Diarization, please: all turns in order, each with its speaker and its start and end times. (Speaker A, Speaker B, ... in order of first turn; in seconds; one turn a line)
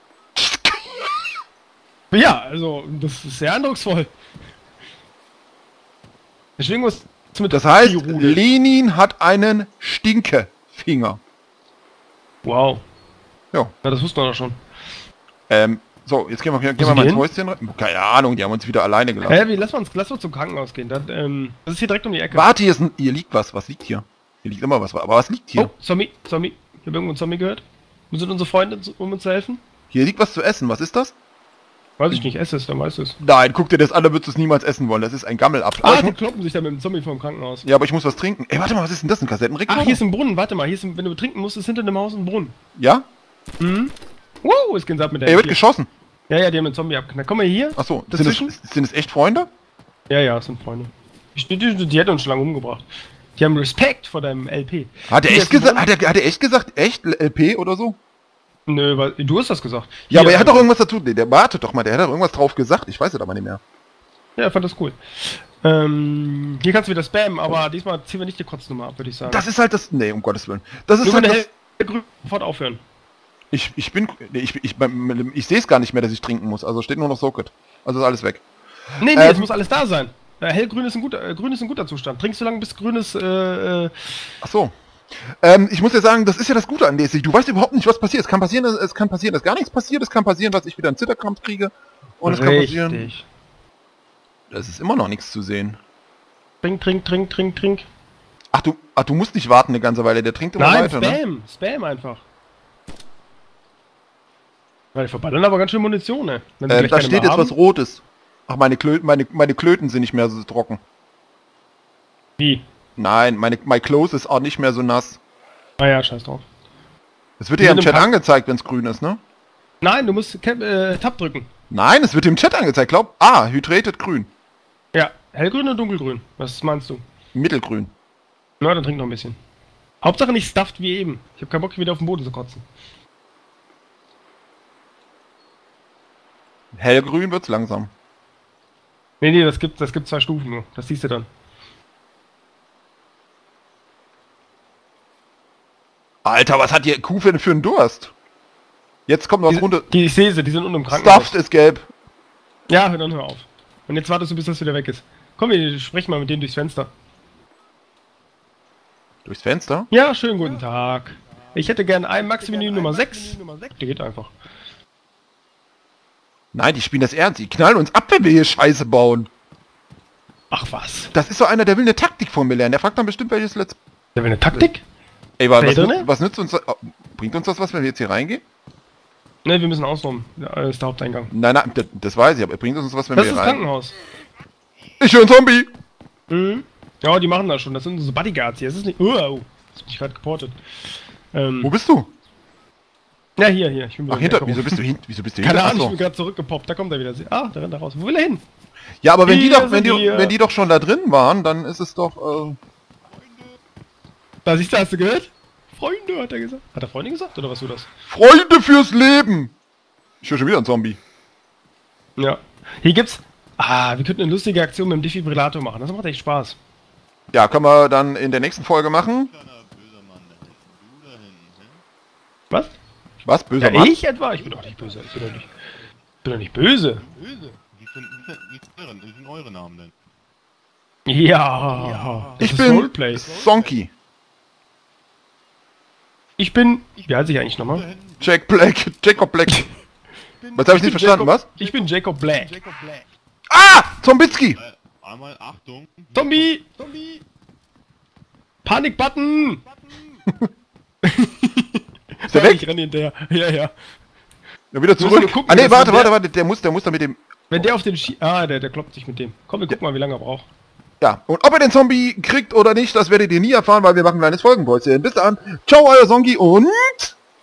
Speaker A: 0.3-1.3
Speaker B: 2.1-4.1
Speaker B: 6.6-8.4
Speaker A: 7.5-11.2
Speaker B: 12.4-12.8
Speaker B: 13.8-14.6
Speaker A: 15.5-19.4
Speaker B: 16.8-17.2
Speaker B: 19.2-22.5
Speaker A: 22.3-25.7
Speaker B: 25.6-29.6
Speaker A: 29.9-31.1
Speaker B: 32.0-33.2
Speaker A: 33.2-36.1
Speaker B: 35.8-37.7
Speaker A: 37.6-40.0
Speaker B: 39.7-42.5
Speaker A: 42.8-43.1
Speaker B: 43.6-45.6
Speaker A: 45.3-45.9
Speaker B: 46.3-48.5
Speaker A: 47.8-49.5
Speaker B: 50.1-55.9
Speaker A: 55.1-58.0
Speaker B: 58.7-60.7
Speaker A: 60.1-63.6
Speaker B: 64.4-69.4
Speaker A: 69.3-71.5
Speaker B: 71.0-72.8
Speaker A: 73.5-78.4
Speaker B: 79.0-84.2
Speaker A: 79.1-79.5
Speaker A: 84.4-93.1
Speaker B: 92.2-93.2
Speaker A: 94.5-95.8
Speaker B: 96.6-97.9
Speaker A: 98.5-101.2
Speaker B: 100.6-102.2
Speaker B: 105.0-107.5
Speaker A: 106.7-110.8
Speaker A: 113.0-115.2
Speaker B: 115.8-116.5
Speaker A: 117.4-119.2
Speaker B: 117.6-118.1
Speaker B: 119.8-121.5
Speaker A: 121.7-124.3
Speaker B: 124.9-127.0
Speaker A: 127.3-127.9
Speaker B: 128.6-129.4
Speaker B: 130.0-132.6
Speaker A: 136.7-137.9
Speaker B: 139.2-141.3
Speaker A: 146.2-148.1
Speaker A: 149.1-149.9
Speaker B: 149.5-151.4
Speaker A: 150.9-151.9
Speaker B: 152.7-156.9
Speaker A: 159.2-159.9
Speaker B: 159.9-164.3
Speaker A: 166.5-169.3
Speaker B: 170.5-171.1
Speaker A: 171.1-173.8
Speaker B: 174.2-174.8
Speaker A: 175.4-178.4
Speaker B: 175.6-176.1
Speaker B: 179.4-181.3
Speaker A: 181.3-183.6
Speaker B: 183.2-184.0
Speaker A: 185.0-185.7
Speaker B: 186.3-190.6
Speaker B: 191.3-191.7
Speaker A: 191.6-192.1
Speaker B: 193.4-194.9
Speaker A: 194.1-196.0
Speaker B: 195.4-198.4
Speaker A: 199.0-202.6
Speaker B: 199.3-200.3
Speaker C: 203.1-203.6
Speaker B: 204.4-207.9
Speaker A: 208.1-209.5
Speaker A: 210.2-211.0
Speaker B: 212.2-216.6
Speaker A: 217.3-219.3
Speaker C: 219.0-221.8
Speaker A: 223.2-223.9
Speaker B: 223.6-225.5
Speaker B: 226.2-227.0
Speaker C: 227.7-229.9
Speaker B: 231.1-233.3
Speaker A: 232.4-233.9
Speaker B: 236.4-237.9
Speaker C: 237.8-238.4
Speaker A: 238.2-239.7
Speaker A: 240.6-241.5
Speaker B: 240.6-242.6
Speaker A: 243.5-244.6
Speaker C: 244.3-246.6
Speaker B: 246.1-246.7
Speaker B: 248.7-249.7
Speaker B: 251.0-253.7
Speaker A: 252.3-252.6
Speaker A: 254.7-257.7
Speaker B: 255.0-256.1
Speaker B: 257.5-260.5
Speaker A: 261.0-267.1